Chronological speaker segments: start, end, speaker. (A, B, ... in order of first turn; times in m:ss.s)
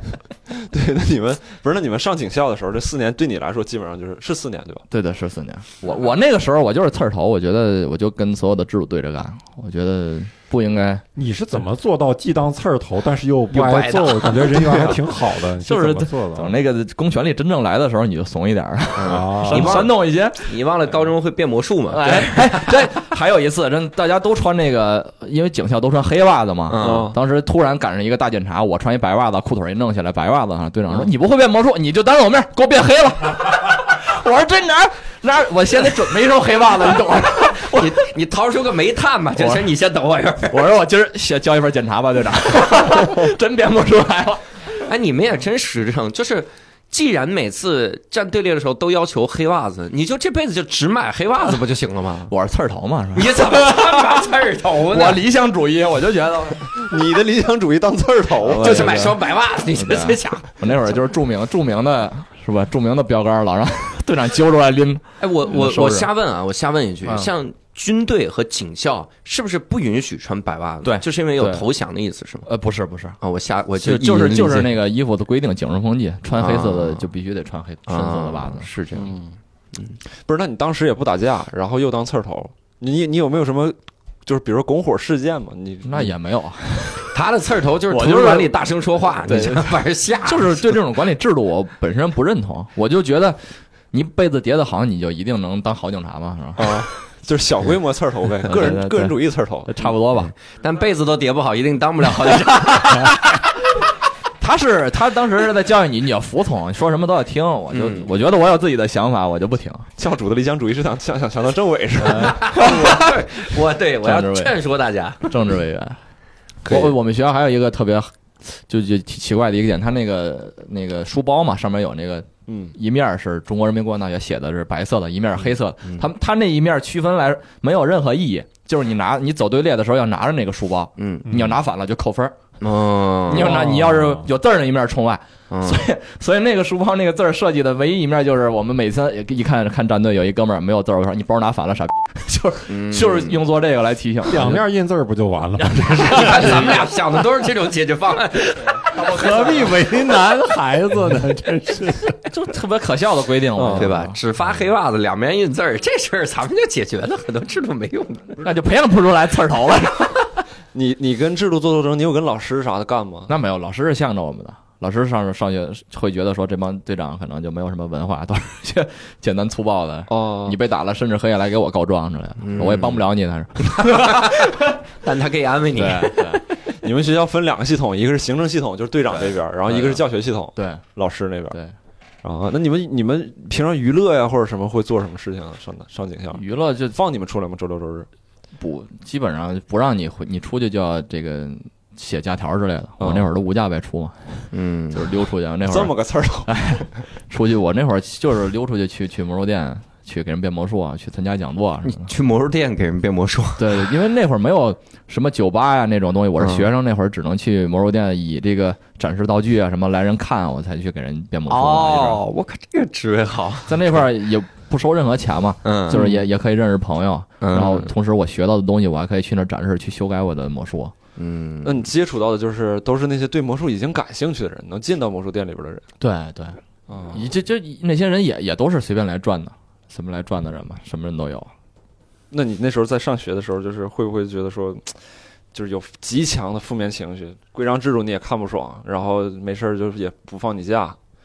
0:00.6-0:04.9 A
0:04.9-0:11.0 B
0:11.2-0:16.6 C
0:13.5-0:15.0 D
0:15.6-0:20.5 B
0:19.0-0:22.8 D
0:19.0-0:19.9 C
0:21.9-0:38.0 B
0:26.7-0:27.1 D
0:26.8-0:27.2 A
0:37.6-0:40.6 D
0:39.4-0:39.7 B
0:40.5-0:44.4 B
0:44.8-0:52.3 D
0:52.3-0:54.3 B
0:53.1-0:55.2 D
0:54.9-0:56.7 B
0:56.8-0:59.1 A
0:58.5-1:00.5 D
0:58.6-1:06.1 B
1:05.2-1:12.5 D
1:07.0-1:07.3 B
1:10.8-1:11.7 B
1:12.5-1:13.2 B
1:13.2-1:14.7 D
1:13.8-1:18.7 B
1:16.4-1:17.1 D
1:17.9-1:19.1 D
1:19.0-1:19.3 A
1:20.2-1:26.1 A
1:25.8-1:27.2 B
1:27.1-1:30.7 D
1:27.9-1:28.6 B
1:29.3-1:29.7 B
1:30.2-1:36.9 B
1:36.6-1:39.7 A
1:38.4-1:40.3 B
1:40.5-1:43.4 D
1:44.4-1:49.9 B
1:47.7-1:48.1 D
1:50.0-1:53.0 A
1:52.0-1:52.9 B
1:52.4-1:55.3 D
1:54.0-1:54.6 B
1:55.2-1:56.0 B
1:56.6-1:57.0 A
1:56.7-2:12.4 B
2:02.5-2:02.8 A
2:11.0-2:11.3 D
2:11.3-2:11.6 C
2:12.6-2:13.6 D
2:13.3-2:24.7 B
2:13.3-2:14.3 C
2:15.5-2:15.8 D
2:22.7-2:23.4 D
2:24.3-2:26.9 C
2:25.6-2:26.6 B
2:26.0-2:28.9 D
2:28.9-2:32.2 C
2:29.3-2:29.5 B
2:32.3-2:34.2 B
2:33.6-2:33.9 A
2:33.7-2:38.4 D
2:38.4-2:40.4 B
2:40.7-2:43.3 A
2:43.3-2:54.3 B
2:50.1-2:50.6 A
2:52.4-2:53.0 D
2:53.6-2:56.4 D
2:55.8-2:56.4 B
2:56.8-3:01.6 A
2:59.7-3:00.0 B
3:00.6-3:00.8 B
3:02.2-3:08.1 A
3:06.3-3:07.0 B
3:08.6-3:15.9 B
3:13.0-3:13.3 A
3:14.5-3:15.1 D
3:15.7-3:16.8 A
3:16.5-3:22.1 B
3:21.9-3:23.8 D
3:23.6-3:32.2 B
3:26.4-3:26.7 D
3:31.5-3:33.9 D
3:33.7-3:40.9 B
3:35.6-3:36.2 D
3:37.4-3:37.9 D
3:41.2-3:41.8 D
3:41.6-3:45.8 A
3:46.0-3:46.6 B
3:46.9-3:47.3 A
3:47.1-3:51.5 B
3:52.3-4:01.0 A